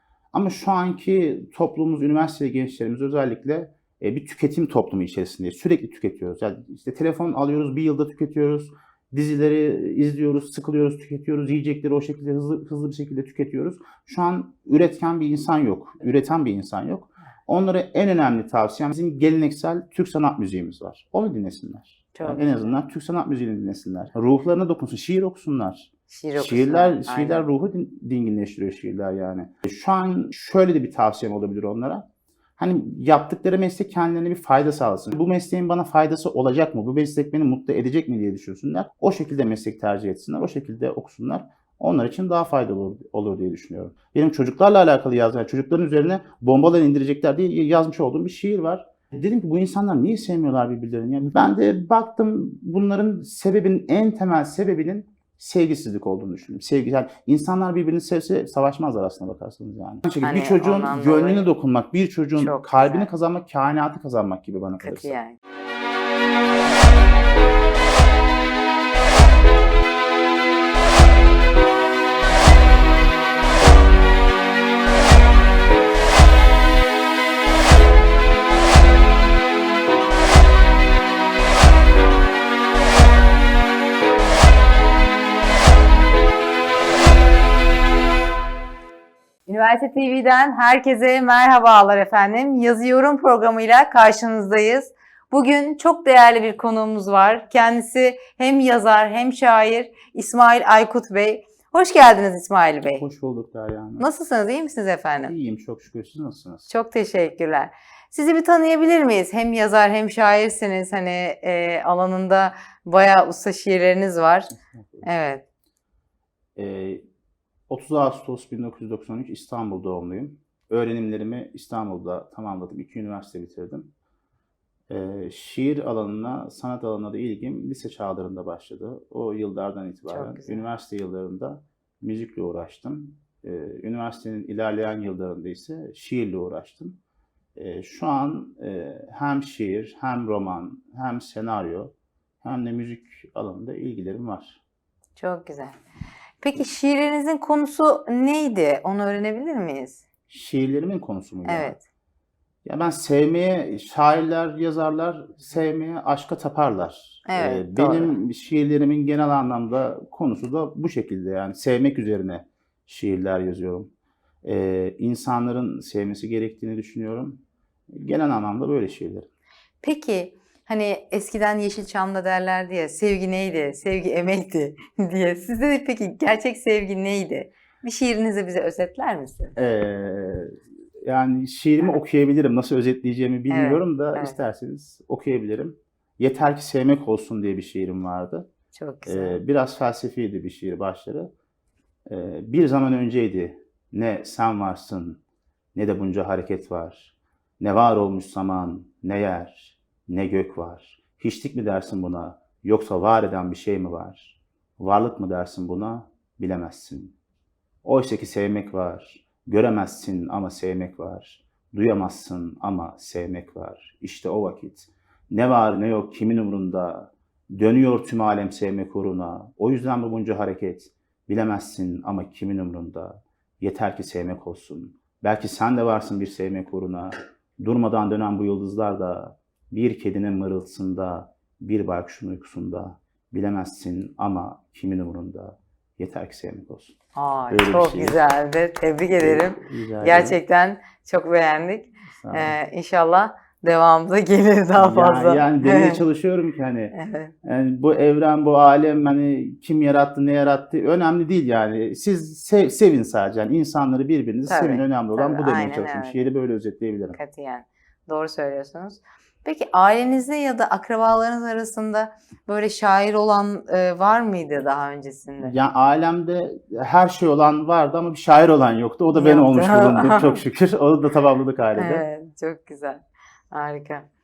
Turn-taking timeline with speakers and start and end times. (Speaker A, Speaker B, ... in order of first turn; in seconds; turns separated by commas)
Speaker A: 0.3-32.0, Speaker B: 22.1-22.8, Speaker B: 26.1-27.5, Speaker A: 32.6-65.2, Speaker B: 60.2-61.5, Speaker B: 62.4-63.1, Speaker B: 64.8-65.4, Speaker B: 89.5-103.0, Speaker A: 103.0-104.1, Speaker B: 104.0-105.3, Speaker A: 105.3-106.7, Speaker B: 106.7-114.5, Speaker A: 114.5-115.1, Speaker B: 115.0-115.4, Speaker A: 116.6-117.0, Speaker A: 117.7-123.9, Speaker A: 124.9-137.0, Speaker B: 130.1-130.7, Speaker A: 137.6-144.6, Speaker B: 145.2-145.8, Speaker B: 146.4-150.0, Speaker A: 150.3-151.8, Speaker B: 151.4-151.8, Speaker A: 152.7-163.9, Speaker B: 157.3-158.2, Speaker A: 164.4-169.3, Speaker B: 169.8-179.6, Speaker A: 179.6-188.5, Speaker B: 183.5-184.4, Speaker B: 188.7-189.4, Speaker A: 189.1-191.3, Speaker A: 192.1-195.2, Speaker A: 195.8-207.2, Speaker A: 207.8-237.0, Speaker B: 237.1-246.1, Speaker A: 237.5-238.2, Speaker A: 239.1-240.4, Speaker A: 242.2-242.6, Speaker A: 244.8-257.2, Speaker B: 246.9-247.3, Speaker B: 254.5-256.3, Speaker B: 257.1-265.6, Speaker A: 265.4-272.1, Speaker B: 269.1-270.4, Speaker B: 271.8-274.1